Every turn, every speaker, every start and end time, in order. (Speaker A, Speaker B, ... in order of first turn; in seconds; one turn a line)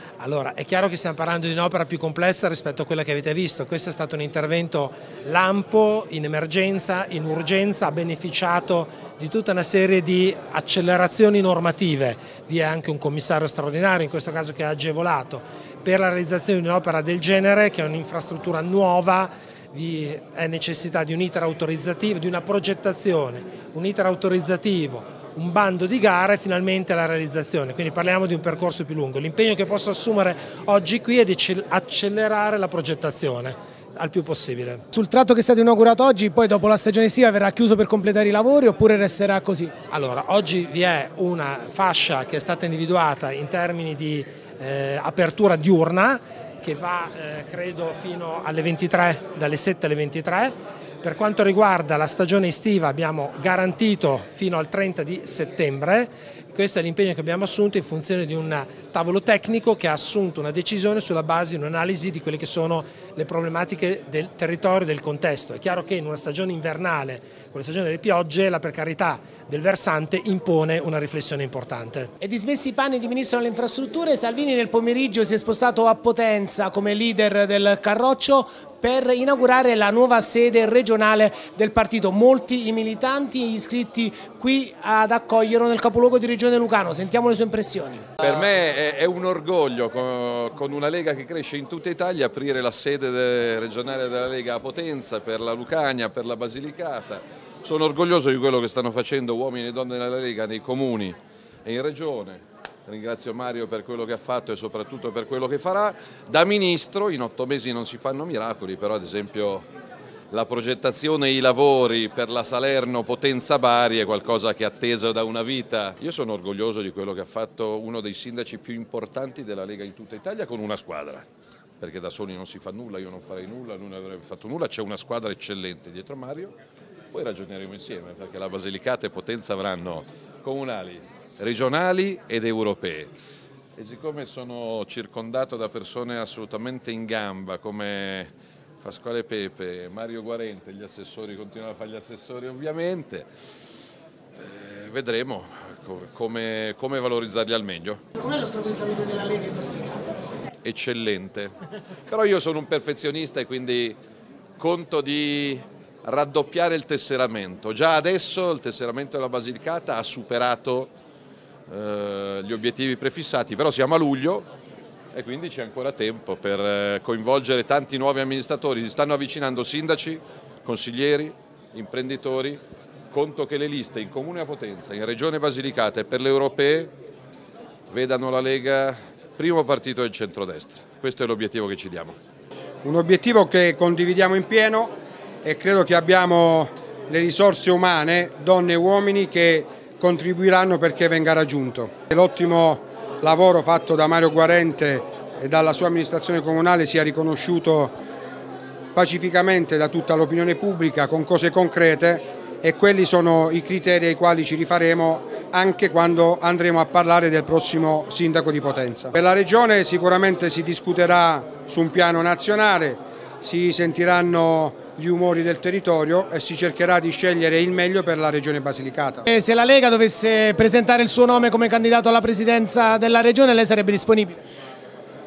Speaker A: 0.2-34.8
Speaker B: 34.9-39.7
Speaker A: 39.9-72.1
Speaker B: 72.2-88.1
Speaker C: 88.2-109.7
Speaker C: 110.3-121.3
Speaker C: 121.8-126.5
Speaker C: 127.1-133.1
Speaker C: 133.8-143.3
Speaker C: 144.3-148.0
Speaker B: 148.2-150.3
Speaker C: 150.6-151.6
Speaker C: 152.1-154.0
Speaker C: 154.6-160.9
Speaker C: 161.7-164.5
Speaker C: 165.1-176.9
Speaker C: 177.9-182.2
Speaker D: 182.8-198.0
Speaker D: 198.9-219.2
Speaker B: 219.2-224.4